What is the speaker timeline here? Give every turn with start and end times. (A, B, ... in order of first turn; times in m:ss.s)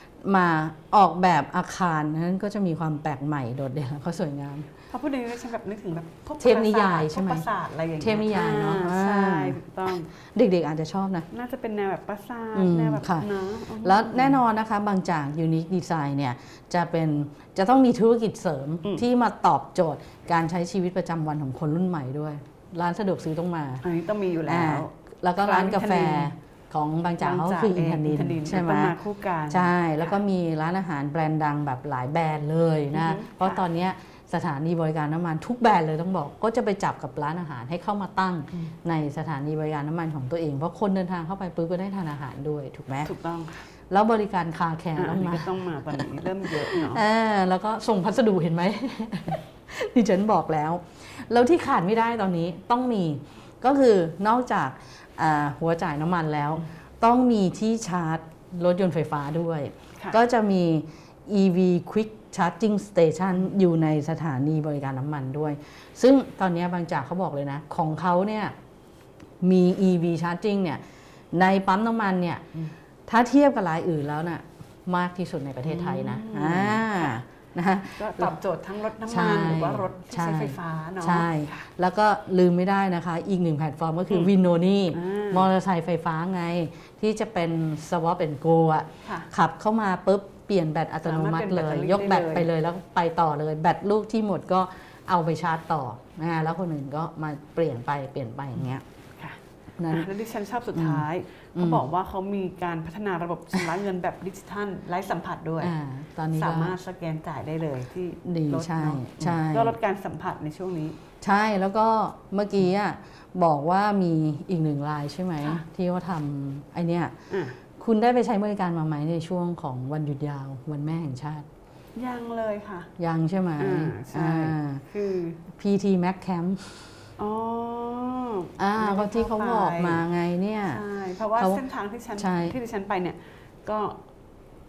0:00.2-0:04.7 A
0:04.9-0:10.1 B
0:06.4-0:07.5 A
0:08.0-0:11.3 A
0:11.3-0:14.4 B
0:12.6-0:13.3 A
0:13.8-0:23.8 A
0:23.8-0:26.3 B
0:24.5-0:29.0 A
0:27.2-0:30.1 B
0:29.5-0:43.1 A
0:32.9-0:33.6 B
0:43.0-0:43.6 B
0:43.9-1:08.6 A
0:45.0-0:47.0 B
1:09.4-1:12.4 A
1:13.1-1:18.3 A
1:15.7-1:17.2 B
1:18.0-1:21.7 B
1:19.1-1:38.8 A
1:24.9-1:25.5 B
1:31.0-1:32.5 B
1:39.8-1:40.1 A
1:39.9-1:45.7 B
1:40.7-1:41.0 A
1:41.6-1:41.8 A
1:45.6-1:46.8 A
1:46.3-1:51.0 B
1:48.2-1:49.8 A
1:51.2-1:57.2 A
1:57.3-1:57.6 B
1:57.8-2:01.5 A
2:02.0-2:02.9 B
2:03.0-2:04.8 A
2:03.6-2:05.4 B
2:05.5-2:07.0 A
2:07.2-2:10.0 B
2:08.6-2:10.8 A
2:10.7-2:14.0 B
2:11.4-2:11.6 A
2:12.2-2:12.6 A